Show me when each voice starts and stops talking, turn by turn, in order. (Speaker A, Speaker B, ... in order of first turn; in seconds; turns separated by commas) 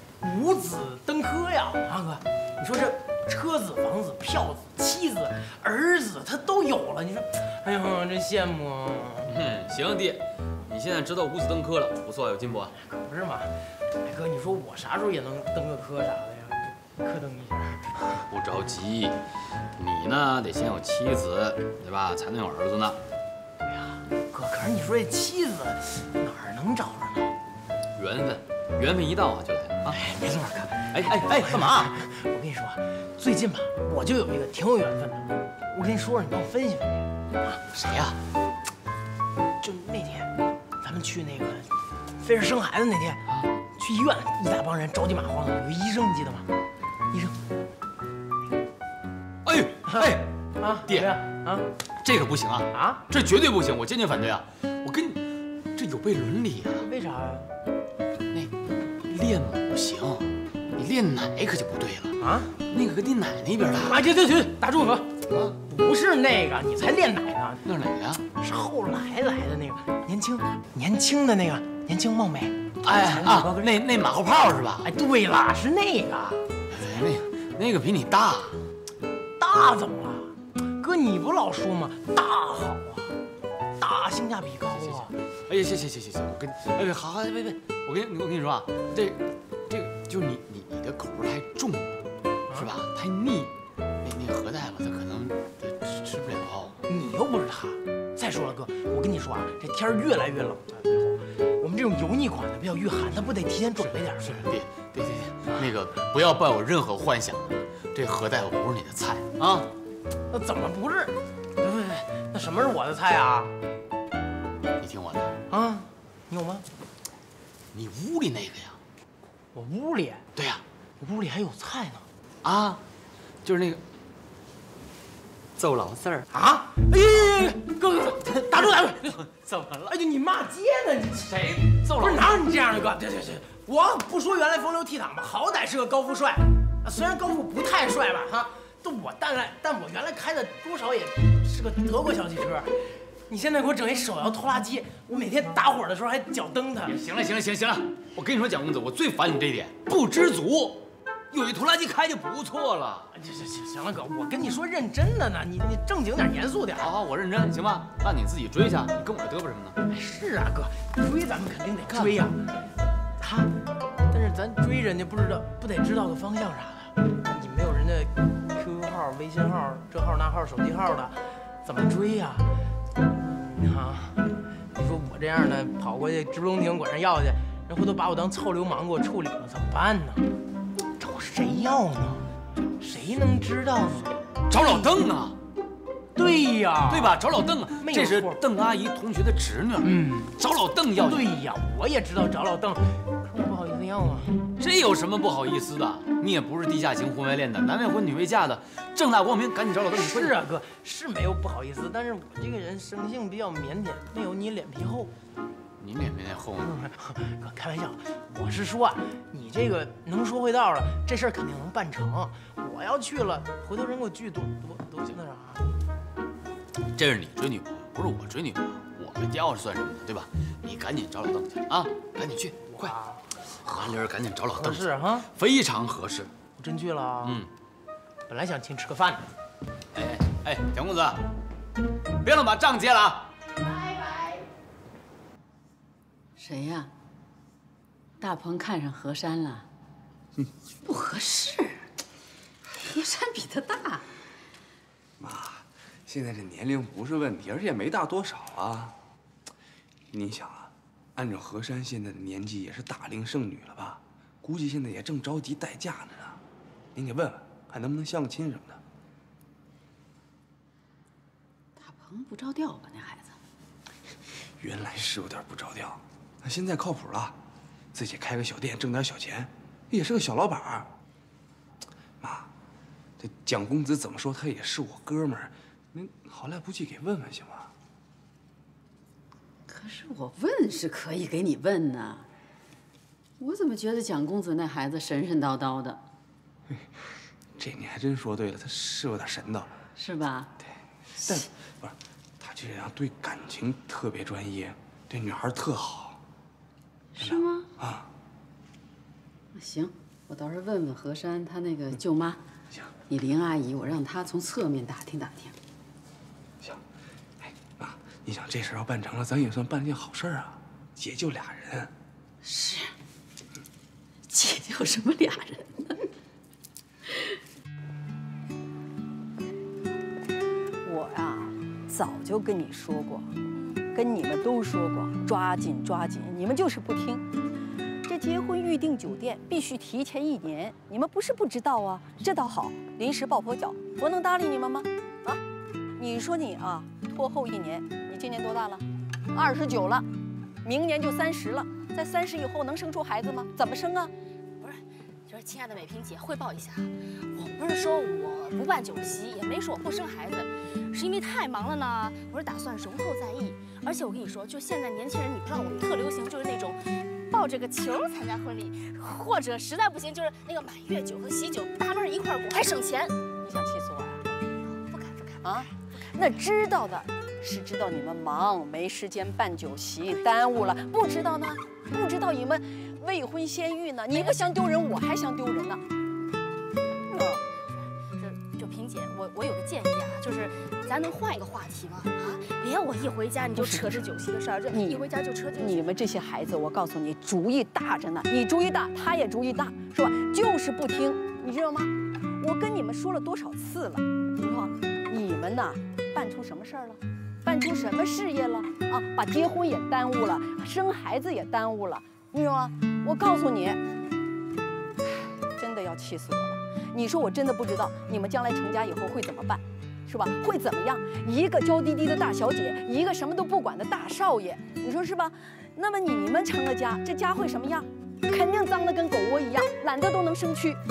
Speaker A: 0.2-9.3, Speaker B: 9.3-12.7, Speaker A: 12.8-17.9, Speaker B: 18.2-19.2, Speaker B: 19.8-23.0, Speaker A: 23.6-27.3, Speaker B: 28.0-30.0, Speaker A: 29.9-37.6, Speaker B: 30.9-31.9, Speaker B: 37.7-38.2, Speaker A: 39.6-43.2, Speaker A: 43.8-46.5, Speaker A: 47.1-47.4, Speaker B: 49.4-50.3, Speaker A: 49.9-51.7, Speaker B: 50.9-51.1, Speaker B: 52.0-55.2, Speaker A: 52.7-53.0, Speaker B: 55.7-56.9, Speaker A: 56.7-57.5, Speaker B: 58.3-64.0, Speaker A: 62.2-62.5, Speaker A: 63.7-67.6, Speaker B: 65.3-65.5, Speaker B: 67.7-68.2, Speaker A: 68.3-73.7, Speaker B: 72.8-74.9, Speaker A: 74.8-76.4, Speaker B: 76.7-78.6, Speaker A: 79.4-83.1, Speaker A: 83.8-85.1, Speaker B: 84.7-96.8, Speaker A: 96.9-104.5, Speaker B: 103.8-109.7, Speaker A: 110.3-113.5, Speaker B: 114.8-115.4, Speaker A: 115.5-116.6, Speaker B: 117.7-118.8, Speaker A: 119.5-120.2, Speaker B: 120.3-120.6, Speaker A: 121.0-122.1, Speaker B: 122.4-122.8, Speaker B: 123.4-123.8, Speaker B: 125.6-126.3, Speaker A: 126.3-129.2, Speaker B: 128.6-129.9, Speaker A: 129.9-147.0, Speaker B: 131.6-132.4, Speaker B: 146.8-153.1, Speaker A: 153.1-156.9, Speaker B: 156.8-159.8, Speaker A: 159.9-162.4, Speaker B: 161.9-162.2, Speaker A: 163.2-163.5, Speaker A: 164.1-172.5, Speaker A: 173.0-180.3, Speaker A: 181.0-182.2, Speaker A: 182.8-184.9, Speaker B: 184.5-185.3, Speaker A: 186.2-187.2, Speaker B: 186.9-191.3, Speaker A: 187.8-188.4, Speaker A: 189.8-190.3, Speaker A: 191.0-194.3, Speaker B: 194.6-200.4, Speaker A: 200.0-205.1, Speaker B: 205.8-206.8, Speaker A: 206.6-215.7, Speaker B: 216.9-222.9, Speaker A: 222.7-223.9, Speaker B: 223.6-226.3, Speaker A: 224.6-225.3, Speaker A: 226.6-227.4, Speaker B: 227.2-227.5, Speaker A: 228.3-229.3, Speaker B: 229.9-231.2, Speaker B: 232.2-233.3, Speaker C: 233.8-234.3, Speaker D: 236.4-236.9, Speaker D: 238.2-239.7, Speaker D: 240.8-241.9, Speaker D: 242.8-244.1, Speaker E: 245.2-248.9, Speaker E: 250.1-256.4, Speaker E: 256.9-258.8, Speaker D: 261.8-263.4, Speaker E: 264.6-267.3, Speaker E: 267.9-270.9, Speaker E: 272.2-272.5, Speaker E: 273.2-277.7, Speaker D: 279.7-282.3, Speaker D: 283.4-286.0, Speaker E: 287.6-289.7, Speaker D: 289.9-290.5, Speaker E: 291.2-296.2, Speaker D: 297.1-297.7, Speaker E: 297.2-298.1, Speaker D: 299.5-302.4, Speaker D: 303.1-305.6, Speaker E: 307.4-311.9, Speaker D: 312.4-312.9, Speaker D: 314.3-316.0, Speaker F: 320.8-323.3, Speaker F: 323.9-327.2, Speaker F: 328.0-335.4, Speaker F: 336.0-340.1, Speaker F: 340.6-344.1, Speaker C: 344.6-363.1, Speaker F: 363.4-364.2, Speaker C: 364.4-366.3, Speaker F: 365.4-375.8, Speaker C: 374.1-374.4, Speaker F: 377.1-377.4, Speaker C: 378.1-386.0, Speaker F: 383.5-384.1, Speaker F: 384.7-385.0, Speaker F: 385.6-403.8, Speaker F: 405.6-420.8